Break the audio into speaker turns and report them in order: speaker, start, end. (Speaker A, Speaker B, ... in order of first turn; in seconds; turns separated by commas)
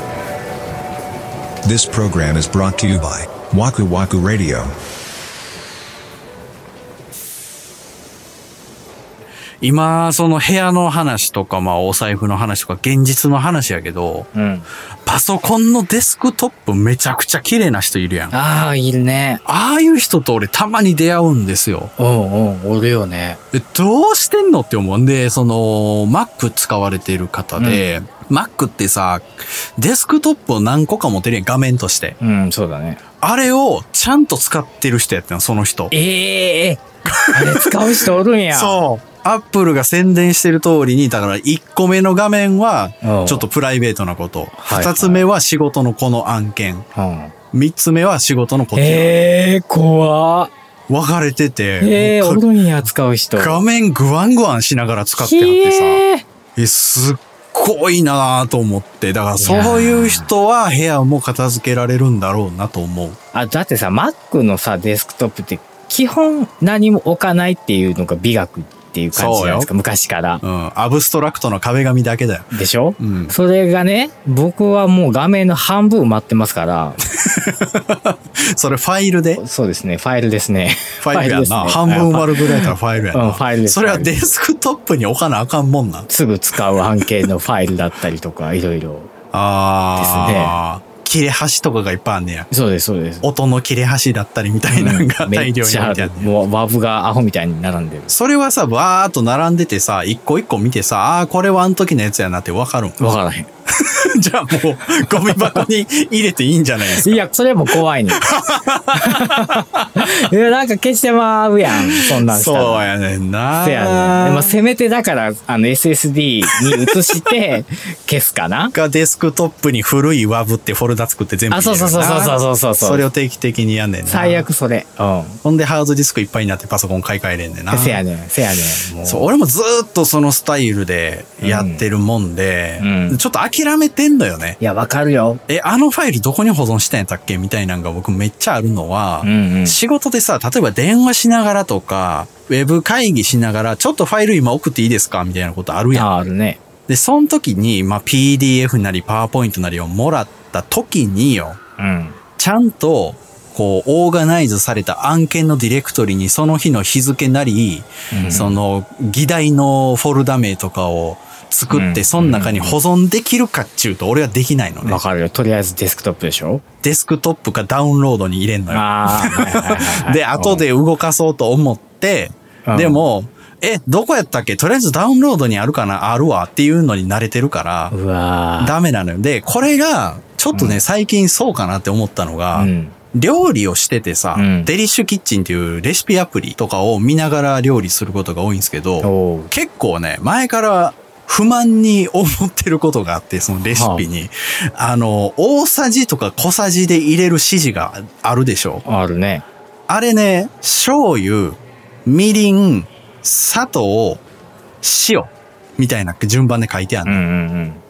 Speaker A: 1.6-4.7, Speaker B: 9.6-14.3, Speaker C: 14.3-14.7, Speaker B: 15.1-18.3, Speaker C: 18.3-19.4, Speaker B: 19.4-21.9, Speaker C: 22.0-23.4, Speaker B: 23.5-32.2, Speaker C: 27.6-27.9, Speaker C: 32.2-33.0, Speaker B: 33.2-35.9, Speaker C: 35.9-36.8, Speaker B: 37.0-46.9, Speaker C: 37.3-38.8, Speaker C: 43.0-43.5, Speaker C: 44.6-45.3, Speaker C: 46.9-47.3, Speaker B: 47.5-49.2, Speaker C: 48.7-50.5, Speaker B: 50.9-52.4, Speaker C: 51.8-53.6, Speaker B: 53.4-56.0, Speaker C: 55.2-56.2, Speaker B: 56.5-63.2, Speaker C: 59.4-60.3, Speaker C: 63.3-70.4, Speaker B: 69.1-69.7, Speaker B: 70.4-73.3, Speaker C: 72.5-77.0, Speaker B: 77.2-79.4, Speaker C: 79.4-84.2, Speaker B: 81.0-86.8, Speaker C: 86.1-89.1, Speaker B: 89.3-92.5, Speaker C: 90.0-90.5, Speaker C: 92.5-93.3, Speaker B: 93.2-96.3, Speaker C: 94.7-98.1, Speaker B: 98.1-103.2, Speaker C: 103.0-103.5, Speaker B: 103.7-107.2, Speaker C: 105.1-105.7, Speaker C: 106.9-108.2, Speaker B: 108.1-109.9, Speaker C: 108.9-112.9, Speaker B: 111.7-114.5, Speaker C: 113.6-118.7, Speaker B: 116.5-117.3, Speaker B: 118.7-124.5, Speaker C: 121.5-123.0, Speaker C: 124.0-125.4, Speaker B: 125.4-128.0, Speaker C: 127.7-129.3, Speaker B: 129.0-134.6, Speaker C: 131.4-131.8, Speaker C: 132.8-133.2, Speaker C: 134.6-135.4, Speaker B: 135.5-146.1, Speaker C: 139.2-139.8, Speaker C: 145.9-146.6, Speaker B: 146.9-151.6, Speaker C: 151.8-152.2, Speaker B: 152.4-165.0, Speaker C: 158.1-158.6, Speaker C: 161.7-162.8, Speaker C: 164.8-166.6, Speaker B: 166.8-177.9, Speaker C: 168.7-170.7, Speaker C: 172.7-173.0, Speaker C: 177.9-178.8, Speaker B: 178.6-198.8, Speaker C: 180.5-180.8, Speaker C: 182.5-182.9, Speaker C: 184.3-184.7, Speaker C: 189.0-189.5, Speaker C: 193.7-194.1, Speaker C: 198.8-199.4, Speaker B: 199.9-204.2, Speaker B: 204.8-207.2, Speaker C: 207.0-207.8